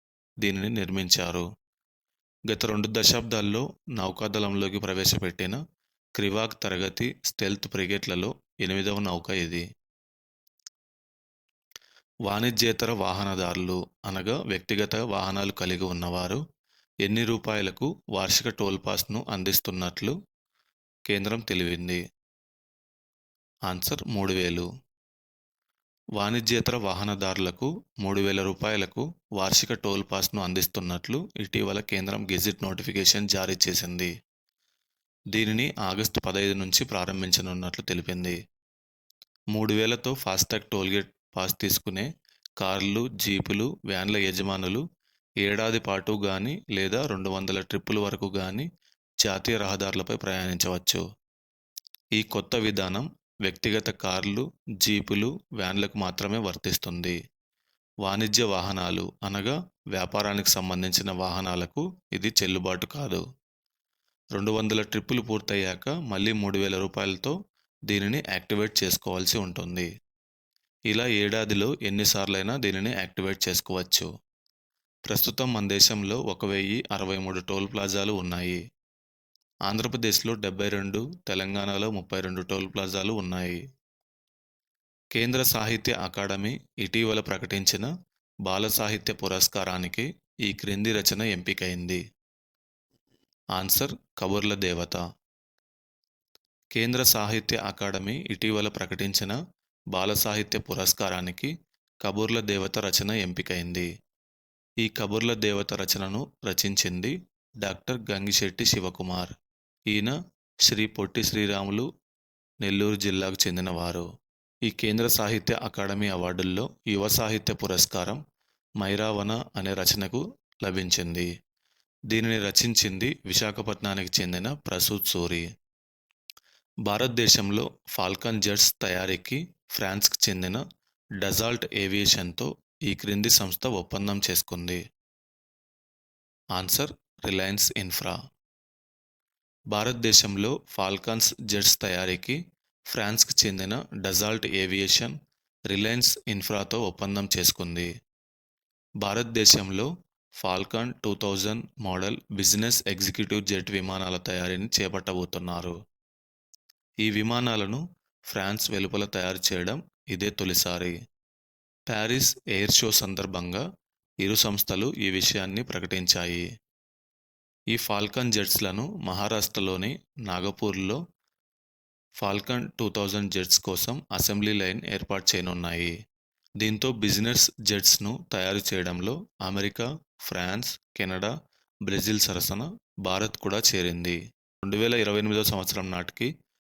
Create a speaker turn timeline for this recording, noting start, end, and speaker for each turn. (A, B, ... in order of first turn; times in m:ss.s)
0:00.4-0:01.5 A
0:02.5-0:05.6 A
0:06.2-0:09.6 A
0:12.3-0:16.4 A
0:17.0-0:20.2 A
0:21.1-0:22.0 A
0:23.7-0:24.7 A
0:26.2-0:34.1 A
0:35.3-0:38.4 A
0:39.5-0:42.1 A
0:42.6-0:44.8 A
0:45.4-0:48.7 A
0:49.2-0:51.0 A
0:52.2-0:57.2 A
0:58.0-1:03.2 A
1:04.4-1:07.4 A
1:07.9-1:09.9 A
1:10.9-1:14.1 A
1:15.1-1:18.6 A
1:19.7-1:23.6 A
1:25.2-1:27.9 A
1:28.5-1:32.0 A
1:33.6-1:35.0 A
1:36.8-1:39.4 A
1:39.9-1:41.5 A
1:42.0-1:43.9 A
1:44.8-1:49.3 A
1:49.9-1:50.2 A
1:50.7-1:51.9 A
1:52.6-1:54.1 A
1:54.7-1:58.2 A
1:58.8-2:01.3 A
2:02.1-2:05.5 A
2:06.9-2:10.6 A
2:11.2-2:14.8 A
2:16.6-2:18.2 A
2:19.7-2:22.4 A
2:22.9-2:25.2 A
2:25.7-2:27.9 A
2:29.0-2:29.9 A
2:30.4-2:35.8 A
2:37.0-2:41.0 A
2:41.9-2:43.6 A
2:44.2-2:46.5 A
2:47.7-2:51.0 A
2:52.2-2:55.9 A
2:56.6-3:01.3 A
3:01.9-3:06.3 A